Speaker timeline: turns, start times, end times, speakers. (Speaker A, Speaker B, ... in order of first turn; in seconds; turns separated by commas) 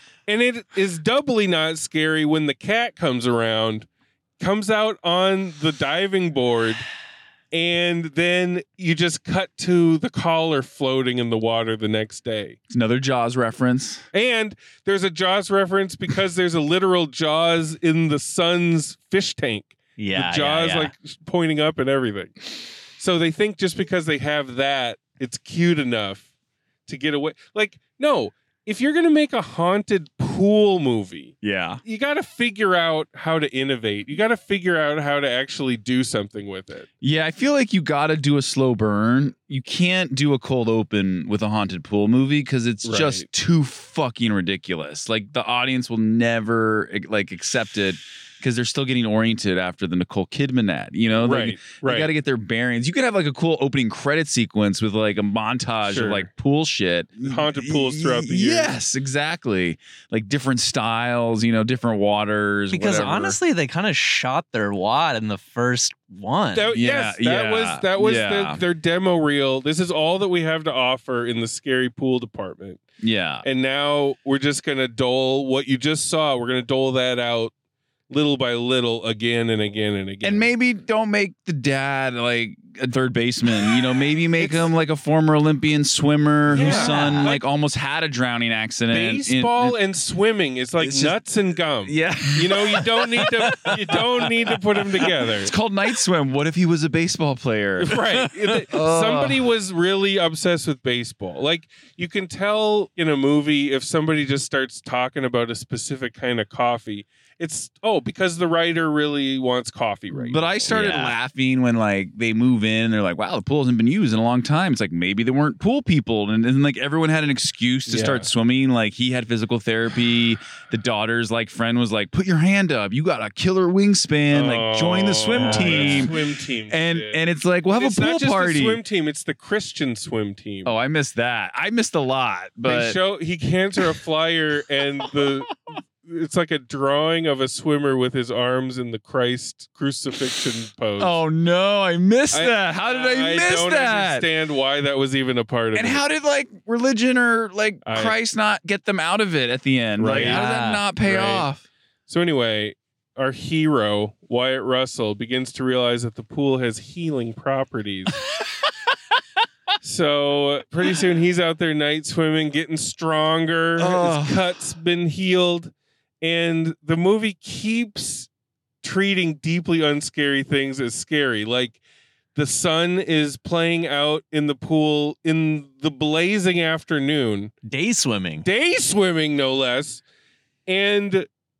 Speaker A: 0.3-3.9, Speaker A: 4.4-6.8, Speaker A: 7.5-12.6, Speaker B: 12.7-14.0, Speaker A: 14.1-22.4, Speaker C: 20.0-20.9, Speaker A: 23.0-26.2, Speaker A: 26.9-36.9, Speaker B: 31.4-31.8, Speaker B: 37.0-63.4, Speaker A: 42.8-43.3, Speaker A: 51.2-52.1, Speaker A: 55.9-56.3, Speaker A: 57.2-58.7, Speaker C: 62.7-66.7, Speaker A: 66.5-72.8, Speaker B: 66.7-68.6, Speaker B: 73.0-73.4, Speaker A: 73.4-77.5, Speaker A: 78.1-80.5, Speaker B: 80.2-89.8, Speaker A: 84.4-84.7, Speaker A: 86.5-87.4, Speaker C: 86.5-87.3, Speaker A: 88.9-95.5, Speaker B: 90.8-91.2, Speaker B: 91.8-94.4, Speaker B: 95.2-99.4, Speaker A: 97.8-111.1, Speaker B: 110.1-126.2, Speaker A: 117.9-118.3, Speaker A: 124.3-127.2, Speaker C: 125.3-126.1, Speaker B: 126.7-128.8, Speaker A: 127.7-130.7, Speaker B: 130.6-133.0, Speaker A: 132.6-141.2, Speaker B: 141.0-144.3, Speaker A: 142.3-146.0, Speaker B: 145.7-151.6, Speaker A: 147.8-148.2, Speaker A: 150.0-150.4, Speaker C: 150.1-150.8, Speaker A: 151.0-151.5, Speaker A: 152.1-158.2, Speaker A: 159.8-168.3, Speaker B: 163.8-164.5, Speaker A: 168.8-171.8, Speaker A: 172.3-177.5, Speaker C: 177.7-178.5, Speaker A: 178.4-180.0, Speaker A: 180.7-181.3